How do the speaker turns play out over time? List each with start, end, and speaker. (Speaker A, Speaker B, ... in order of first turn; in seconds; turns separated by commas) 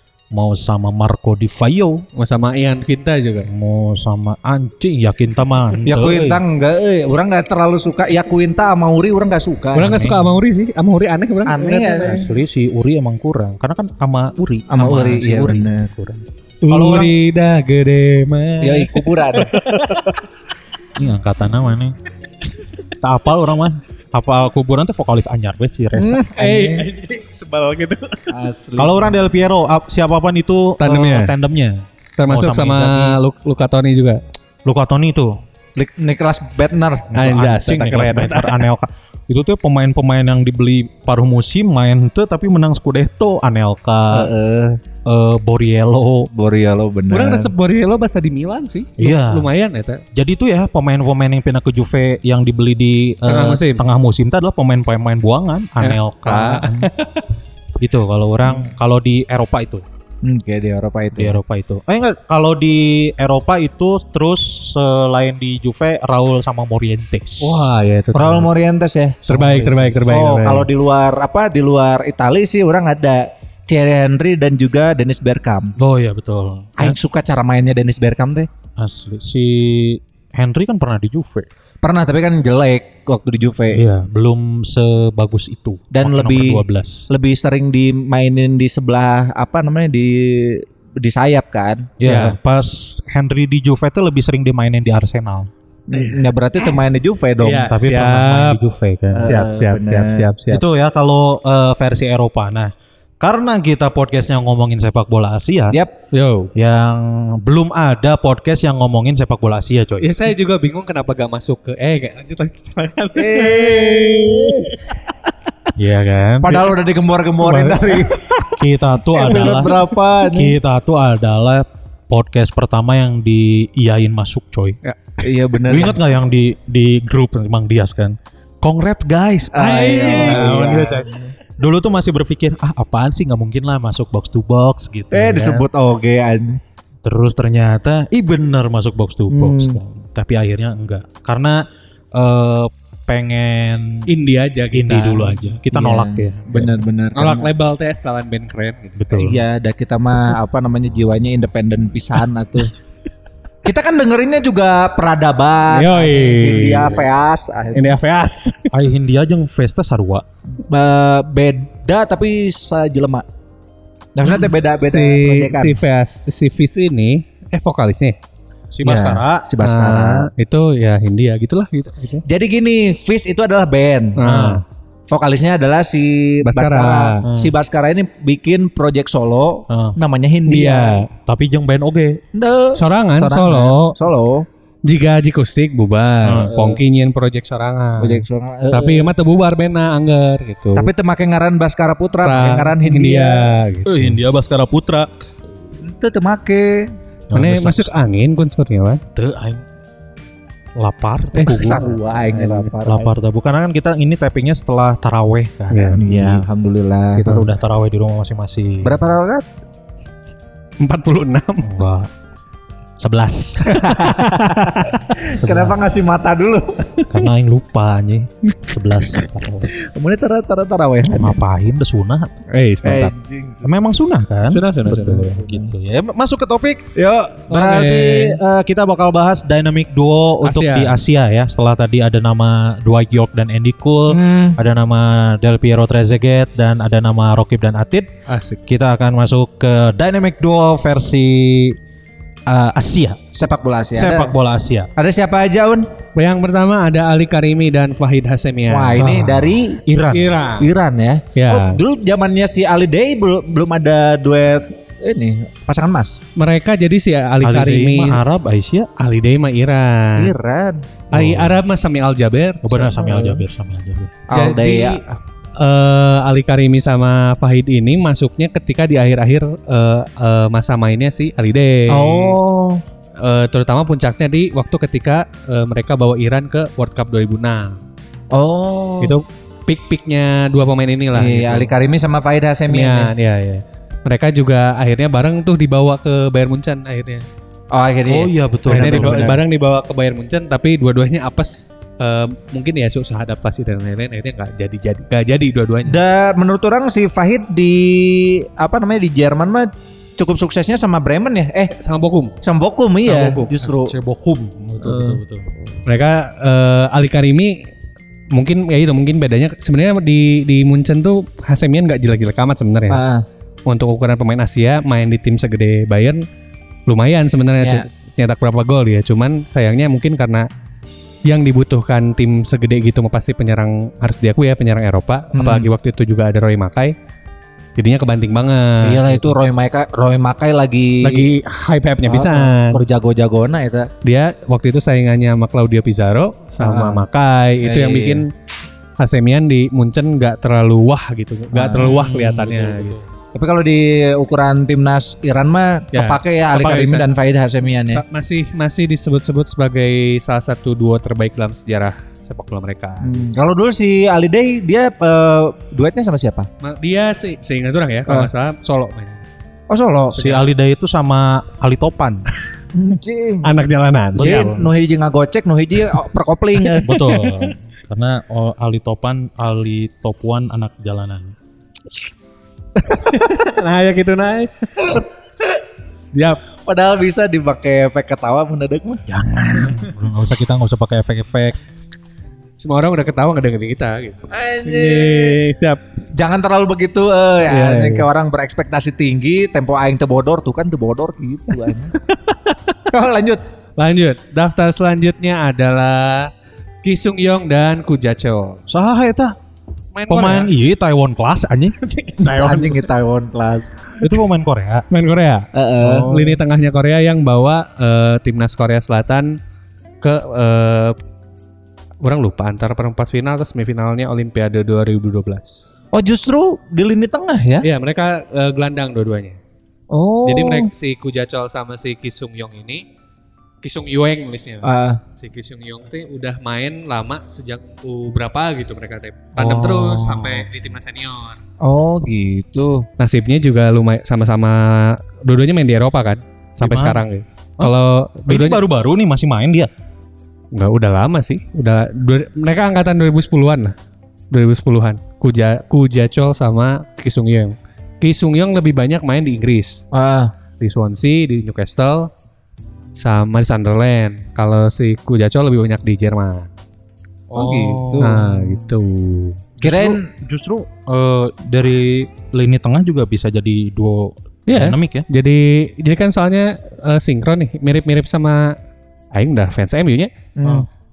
Speaker A: 0.3-2.0, Speaker B: 2.2-3.5, Speaker A: 3.5-6.4, Speaker C: 5.9-10.0, Speaker B: 9.8-12.2, Speaker A: 9.8-10.3, Speaker C: 11.5-12.3, Speaker A: 12.1-17.1, Speaker C: 14.7-15.9, Speaker B: 16.6-20.2, Speaker C: 18.6-19.6, Speaker A: 21.0-21.9, Speaker A: 23.0-26.2, Speaker C: 25.9-26.9, Speaker B: 26.3-28.3, Speaker C: 28.3-29.2, Speaker A: 28.8-33.2, Speaker B: 30.8-31.3, Speaker B: 32.2-34.2, Speaker A: 34.6-35.3, Speaker C: 35.8-37.1, Speaker A: 37.1-44.3, Speaker B: 37.1-38.6, Speaker C: 44.1-44.8, Speaker A: 45.0-46.3, Speaker C: 46.3-47.5, Speaker B: 47.1-50.0, Speaker A: 49.0-49.5, Speaker A: 50.1-56.9, Speaker B: 53.3-53.8, Speaker B: 55.8-57.3, Speaker A: 57.8-59.9, Speaker C: 60.2-61.4, Speaker A: 61.1-67.7, Speaker B: 67.4-68.5, Speaker C: 68.2-69.2, Speaker A: 69.2-70.1, Speaker B: 69.3-70.7, Speaker C: 70.1-75.7, Speaker A: 75.8-77.0, Speaker C: 76.8-78.5, Speaker A: 78.8-81.5, Speaker C: 81.8-83.8, Speaker A: 83.7-87.1, Speaker C: 85.9-91.9, Speaker A: 92.0-95.5, Speaker B: 92.0-92.4, Speaker C: 95.9-97.7, Speaker B: 95.9-96.2, Speaker B: 97.4-98.6, Speaker A: 97.6-99.3, Speaker C: 99.1-100.3, Speaker B: 99.2-100.6, Speaker A: 100.5-105.8, Speaker B: 106.1-106.5, Speaker A: 106.5-110.1, Speaker B: 110.0-114.9, Speaker C: 113.2-114.8, Speaker A: 115.8-116.7, Speaker C: 116.4-118.3, Speaker B: 117.5-118.6, Speaker A: 118.6-124.8, Speaker C: 119.1-120.5, Speaker B: 119.2-120.0, Speaker C: 125.2-126.0, Speaker A: 125.7-135.7, Speaker C: 129.5-131.2, Speaker B: 130.1-130.6, Speaker C: 135.1-136.6, Speaker A: 137.0-141.6, Speaker C: 139.3-139.8, Speaker A: 142.2-144.1, Speaker B: 144.1-145.4, Speaker A: 144.7-146.8, Speaker C: 145.7-147.5, Speaker B: 147.2-149.1, Speaker A: 149.0-149.4, Speaker C: 149.2-152.7, Speaker C: 153.7-158.0, Speaker B: 155.7-157.0, Speaker B: 157.7-158.7, Speaker A: 158.7-160.2, Speaker C: 160.6-163.2, Speaker C: 164.2-165.8, Speaker B: 164.8-168.2, Speaker A: 168.7-169.5, Speaker C: 168.8-170.3, Speaker B: 169.6-172.2, Speaker C: 172.3-174.2, Speaker B: 174.2-174.6, Speaker A: 174.2-174.6, Speaker C: 175.1-181.0, Speaker B: 176.4-177.2, Speaker A: 177.2-177.5, Speaker A: 179.7-180.0, Speaker B: 180.5-181.1, Speaker A: 181.3-182.2, Speaker C: 182.3-184.5, Speaker B: 182.8-184.0, Speaker B: 184.9-190.9, Speaker A: 186.2-186.5, Speaker C: 186.5-186.8, Speaker C: 188.0-189.1, Speaker C: 190.8-193.4, Speaker B: 192.2-194.2, Speaker A: 193.9-195.1, Speaker C: 195.8-196.9, Speaker A: 197.3-197.9, Speaker B: 197.3-199.0, Speaker A: 199.2-199.6, Speaker A: 200.8-202.0, Speaker B: 201.3-202.7, Speaker C: 201.4-203.1, Speaker A: 202.8-206.4, Speaker B: 205.7-206.0, Speaker C: 206.0-207.5, Speaker A: 207.2-209.0, Speaker C: 208.8-209.4, Speaker B: 210.8-211.7, Speaker A: 211.6-212.1, Speaker A: 213.0-214.0, Speaker C: 213.7-214.6, Speaker B: 213.8-215.2, Speaker C: 215.2-217.0, Speaker A: 215.4-215.8, Speaker A: 217.1-219.7, Speaker C: 219.7-221.4, Speaker A: 221.1-222.3, Speaker B: 222.5-223.1, Speaker C: 222.8-223.7, Speaker A: 223.6-226.9, Speaker B: 224.5-225.4, Speaker C: 225.2-225.7, Speaker C: 227.0-228.3, Speaker B: 227.5-228.3, Speaker A: 227.5-238.1, Speaker B: 230.4-231.0, Speaker C: 234.1-234.6, Speaker B: 238.3-238.6, Speaker A: 238.7-241.8, Speaker A: 242.5-243.3, Speaker C: 243.3-244.4, Speaker A: 243.9-244.9, Speaker C: 245.0-245.9, Speaker B: 246.2-249.2, Speaker C: 248.7-249.8, Speaker A: 249.0-250.4, Speaker B: 250.1-250.7, Speaker C: 250.6-256.2, Speaker B: 251.3-251.8, Speaker B: 256.4-258.2, Speaker A: 257.4-258.9, Speaker B: 259.0-260.3, Speaker C: 260.2-260.9, Speaker B: 261.1-263.0, Speaker A: 261.1-261.6, Speaker A: 262.6-264.1, Speaker C: 263.0-263.4, Speaker C: 264.3-265.0, Speaker B: 264.3-272.4, Speaker C: 271.9-272.8, Speaker B: 273.2-277.8, Speaker C: 278.3-279.1, Speaker B: 279.0-281.7, Speaker C: 281.1-283.1, Speaker B: 282.7-287.3, Speaker C: 287.7-289.4, Speaker A: 288.1-289.4, Speaker B: 288.7-296.0, Speaker C: 295.9-301.7, Speaker B: 301.8-302.3, Speaker C: 302.4-303.9, Speaker B: 303.1-303.6, Speaker A: 303.7-305.5, Speaker C: 304.9-305.2, Speaker B: 305.9-307.6, Speaker B: 308.3-313.0, Speaker C: 312.9-313.2, Speaker B: 313.7-316.2, Speaker B: 316.9-320.5, Speaker B: 321.3-326.9, Speaker C: 325.4-325.7, Speaker B: 327.8-329.3, Speaker C: 328.8-331.3, Speaker B: 331.0-332.8, Speaker C: 332.1-333.9, Speaker B: 334.0-338.3, Speaker C: 336.6-337.0, Speaker C: 337.6-338.2, Speaker B: 339.0-342.9, Speaker C: 341.5-342.0, Speaker A: 341.8-343.1, Speaker C: 343.3-348.0, Speaker B: 345.9-347.1, Speaker B: 347.9-353.3, Speaker C: 353.0-356.5, Speaker B: 356.6-359.2, Speaker C: 359.7-360.4, Speaker A: 360.1-362.2, Speaker C: 362.7-363.5, Speaker B: 363.4-364.6, Speaker A: 364.2-364.7, Speaker C: 364.2-367.0, Speaker B: 366.7-367.5, Speaker A: 366.8-371.3, Speaker B: 372.9-375.0, Speaker B: 376.1-376.4, Speaker C: 376.7-379.0, Speaker A: 379.1-381.6, Speaker B: 382.6-385.8, Speaker C: 384.3-385.4, Speaker C: 386.1-391.9, Speaker B: 387.5-388.1, Speaker B: 392.0-392.8, Speaker C: 392.9-393.4, Speaker B: 393.8-396.3, Speaker B: 396.8-398.6, Speaker A: 398.7-399.4, Speaker B: 399.9-400.5, Speaker A: 400.1-402.7, Speaker B: 402.2-402.6, Speaker C: 402.2-403.7, Speaker A: 404.0-404.9, Speaker B: 404.9-409.4, Speaker C: 405.5-406.4, Speaker B: 410.0-411.0, Speaker B: 412.0-415.7, Speaker C: 415.9-417.7, Speaker B: 417.6-419.4, Speaker C: 419.9-420.7, Speaker B: 420.2-422.9, Speaker B: 423.6-431.4, Speaker C: 424.6-425.0, Speaker A: 429.4-430.5, Speaker C: 431.6-432.9, Speaker B: 433.0-438.6, Speaker A: 436.6-437.0, Speaker A: 438.3-439.7, Speaker B: 440.5-443.8, Speaker B: 444.3-449.8, Speaker C: 449.9-450.3, Speaker B: 450.6-452.1, Speaker B: 453.0-456.5, Speaker A: 457.3-458.3, Speaker C: 457.3-458.2, Speaker B: 458.0-459.4, Speaker A: 459.6-465.1, Speaker C: 459.6-460.1, Speaker B: 464.5-468.6, Speaker B: 469.1-470.1, Speaker C: 470.4-470.7